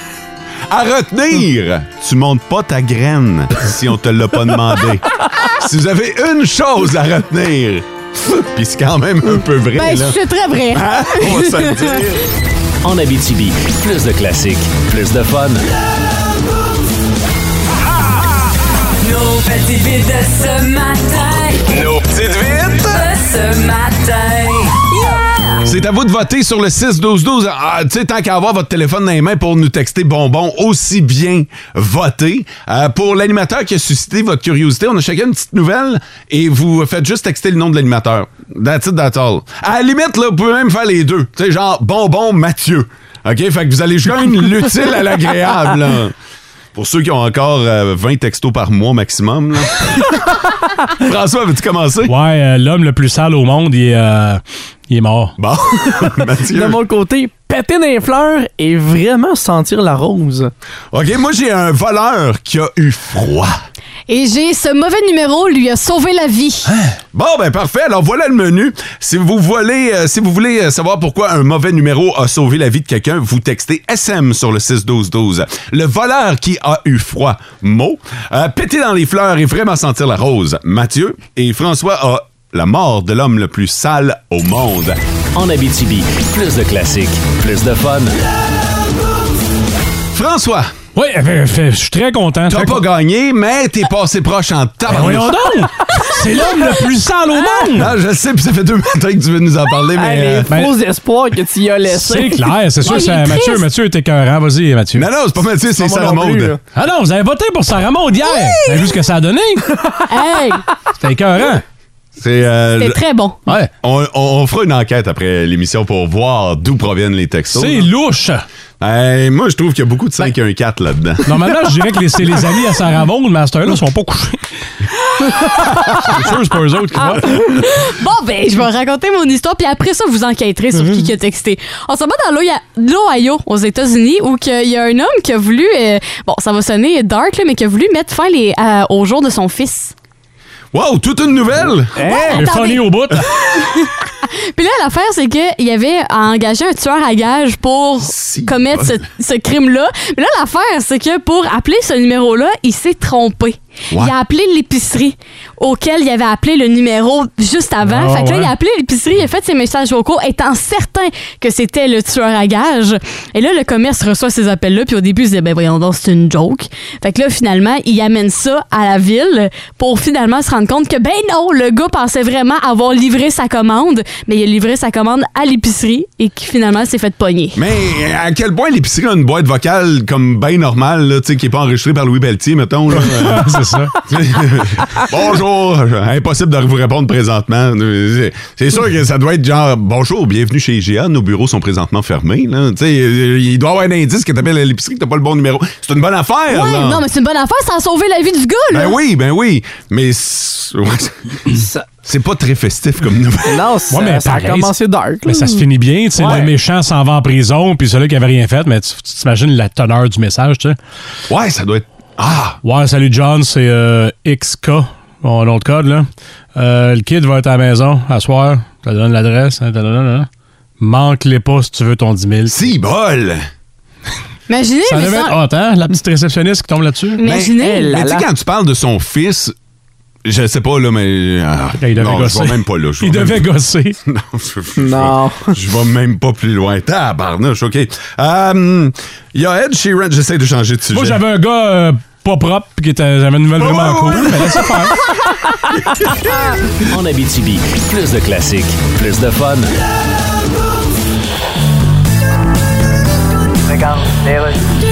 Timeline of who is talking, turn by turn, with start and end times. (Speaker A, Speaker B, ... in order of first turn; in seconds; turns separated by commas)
Speaker A: 0.7-10.2, Speaker B: 9.8-11.9, Speaker A: 10.7-12.2, Speaker C: 12.8-15.7, Speaker D: 19.0-21.6, Speaker A: 21.7-23.0, Speaker D: 22.9-25.5, Speaker A: 25.6-46.1, Speaker A: 46.7-50.1, Speaker A: 50.9-52.1, Speaker E: 52.1-55.4, Speaker A: 55.4-56.8, Speaker F: 56.4-60.5, Speaker A: 60.9-63.5, Speaker B: 64.1-66.7, Speaker A: 67.1-85.0, Speaker C: 85.3-88.2, Speaker A: 90.1-90.7, Speaker E: 91.0-92.8, Speaker A: 92.5-95.4, Speaker E: 94.8-97.9, Speaker A: 97.7-100.5, Speaker F: 99.9-102.5, Speaker E: 100.5-100.8, Speaker E: 101.9-105.1, Speaker B: 102.8-103.7, Speaker A: 104.9-106.5, Speaker F: 105.7-106.6, Speaker E: 106.7-109.7, Speaker B: 110.1-110.6, Speaker E: 111.0-111.6, Speaker A: 112.2-113.0, Speaker B: 112.8-113.4, Speaker A: 113.8-117.9, Speaker E: 117.5-118.4, Speaker A: 118.8-121.5, Speaker E: 121.2-124.4, Speaker E: 125.6-127.5, Speaker B: 127.4-139.9, Speaker A: 140.7-141.9, Speaker B: 142.0-142.9, Speaker F: 142.0-142.4, Speaker E: 142.0-143.2, Speaker B: 143.5-143.9, Speaker B: 144.5-177.6, Speaker A: 148.0-149.0, Speaker E: 157.8-158.5, Speaker A: 177.6-197.0, Speaker E: 183.0-183.9, Speaker B: 196.5-199.0, Speaker A: 198.7-201.5, Speaker F: 201.6-201.8, Speaker A: 202.0-203.7, Speaker F: 203.4-205.6, Speaker E: 203.9-204.7, Speaker E: 205.2-210.8, Speaker F: 206.2-206.5, Speaker A: 206.2-206.5, Speaker A: 211.3-212.6, Speaker E: 212.6-220.3, Speaker E: 220.8-222.6, Speaker A: 222.5-223.4, Speaker B: 224.5-225.4, Speaker E: 224.8-227.2, Speaker B: 227.2-227.9, Speaker A: 227.2-229.5, Speaker F: 227.6-228.3, Speaker A: 230.2-233.5, Speaker E: 231.8-233.9, Speaker A: 234.1-241.2, Speaker F: 234.8-235.5, Speaker E: 240.9-245.1, Speaker A: 243.6-244.7, Speaker C: 246.9-249.7